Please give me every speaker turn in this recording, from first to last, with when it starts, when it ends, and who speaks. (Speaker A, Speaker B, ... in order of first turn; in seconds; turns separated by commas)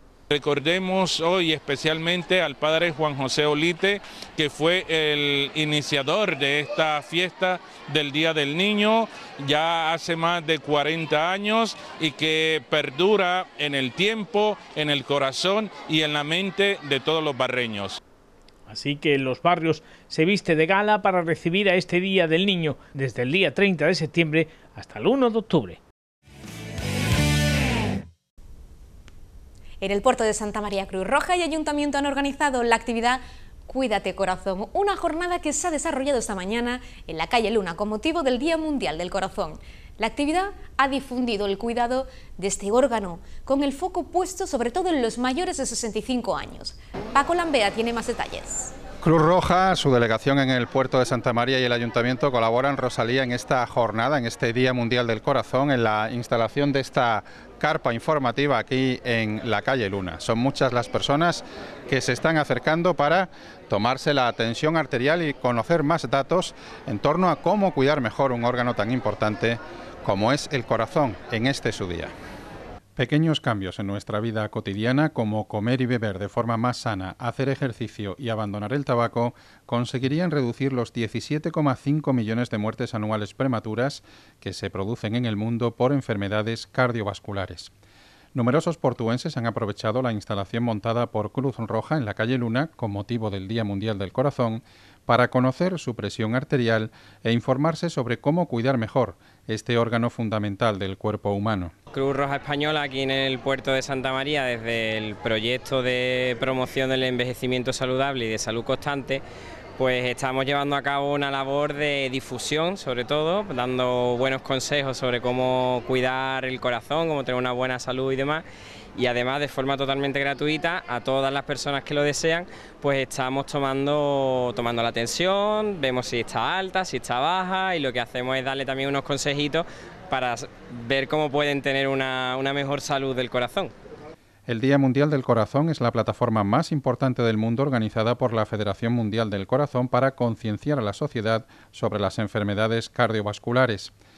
Speaker A: 0.3-18.0, Speaker B: 18.7-25.8, Speaker C: 29.8-48.7, Speaker D: 49.0-72.1, Speaker D: 73.0-87.7, Speaker D: 88.3-101.7, Speaker E: 101.9-109.2, Speaker E: 109.8-118.5, Speaker E: 119.0-133.7, Speaker D: 134.5-143.9